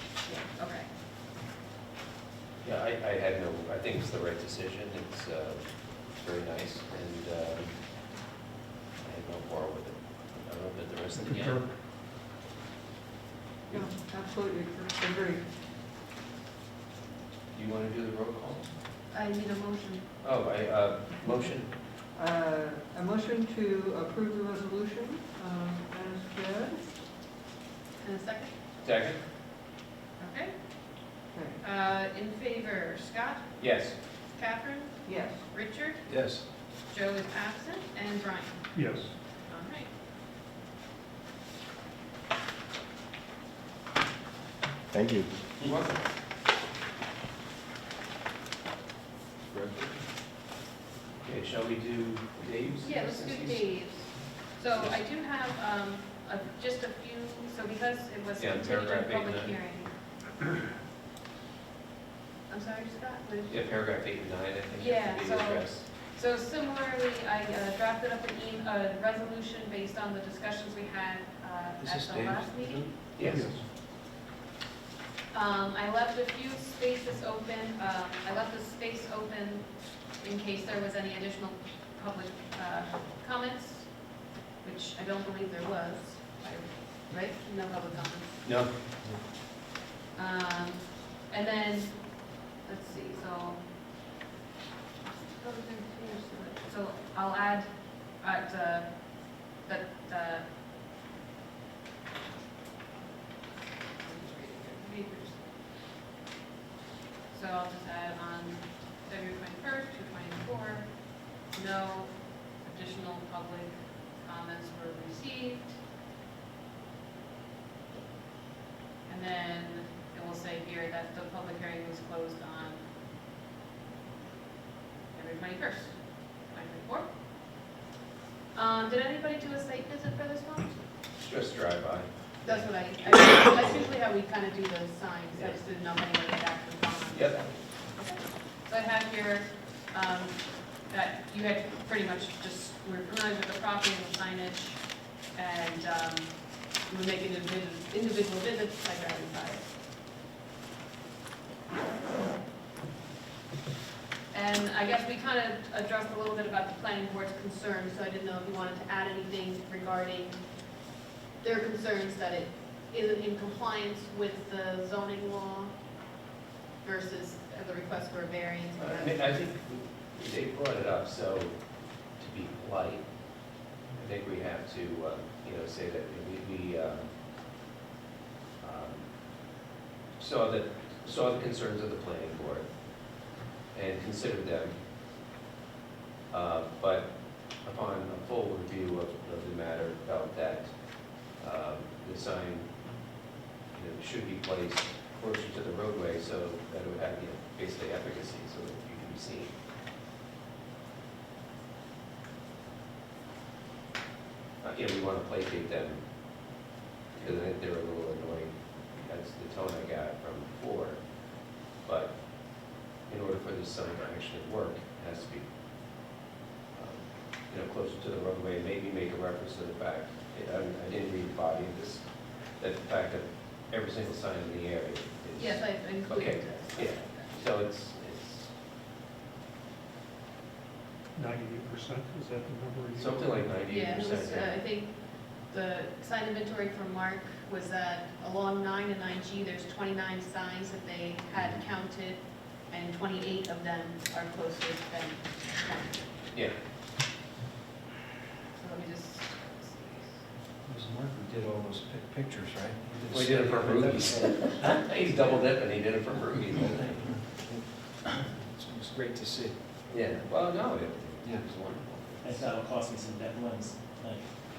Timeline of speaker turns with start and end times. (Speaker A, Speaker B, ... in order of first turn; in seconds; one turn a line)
Speaker A: 0.2-0.9
Speaker B: 2.6-7.7
Speaker B: 9.0-11.6
Speaker C: 11.2-11.7
Speaker D: 13.7-15.4
Speaker B: 17.5-18.7
Speaker A: 19.1-20.1
Speaker B: 20.2-21.7
Speaker D: 22.1-26.9
Speaker A: 28.0-28.6
Speaker B: 28.8-29.2
Speaker A: 30.2-30.5
Speaker D: 31.3-31.6
Speaker A: 31.6-33.5
Speaker B: 33.6-34.0
Speaker A: 34.4-36.1
Speaker D: 35.0-35.4
Speaker E: 36.1-36.4
Speaker A: 36.9-38.6
Speaker C: 38.7-39.1
Speaker A: 39.4-39.9
Speaker B: 45.6-46.0
Speaker E: 49.5-49.9
Speaker B: 51.2-53.7
Speaker A: 52.8-59.9
Speaker B: 58.4-59.5
Speaker A: 62.5-63.7
Speaker B: 63.5-65.8
Speaker A: 64.8-72.9
Speaker E: 71.8-72.9
Speaker B: 73.2-73.5
Speaker C: 73.2-73.6
Speaker A: 75.3-88.4
Speaker B: 88.4-88.7
Speaker A: 90.2-93.6
Speaker A: 95.1-100.5
Speaker A: 104.0-105.5
Speaker A: 107.3-115.8
Speaker A: 119.0-122.8
Speaker A: 125.1-127.1
Speaker A: 128.6-130.8
Speaker B: 131.2-133.2
Speaker A: 132.4-149.7
Speaker B: 137.1-137.5
Speaker A: 154.3-160.4
Speaker A: 161.4-165.7
Speaker A: 166.8-169.3
Speaker B: 168.8-171.6
Speaker B: 172.2-173.0
Speaker B: 174.0-177.1
Speaker B: 178.6-179.1
Speaker B: 180.2-182.7
Speaker B: 183.7-184.7
Speaker B: 186.3-190.7
Speaker B: 191.3-192.8
Speaker B: 193.7-199.5
Speaker B: 204.6-206.0
Speaker B: 207.1-211.0
Speaker B: 211.8-215.5
Speaker B: 216.8-222.1
Speaker B: 222.6-228.5
Speaker A: 225.4-227.4
Speaker C: 231.2-233.7
Speaker B: 233.0-234.6
Speaker A: 233.7-246.3
Speaker A: 248.5-250.2
Speaker E: 250.7-254.7
Speaker B: 253.1-257.2
Speaker E: 257.1-259.6
Speaker B: 259.9-262.4
Speaker E: 261.2-261.5
Speaker F: 262.2-264.4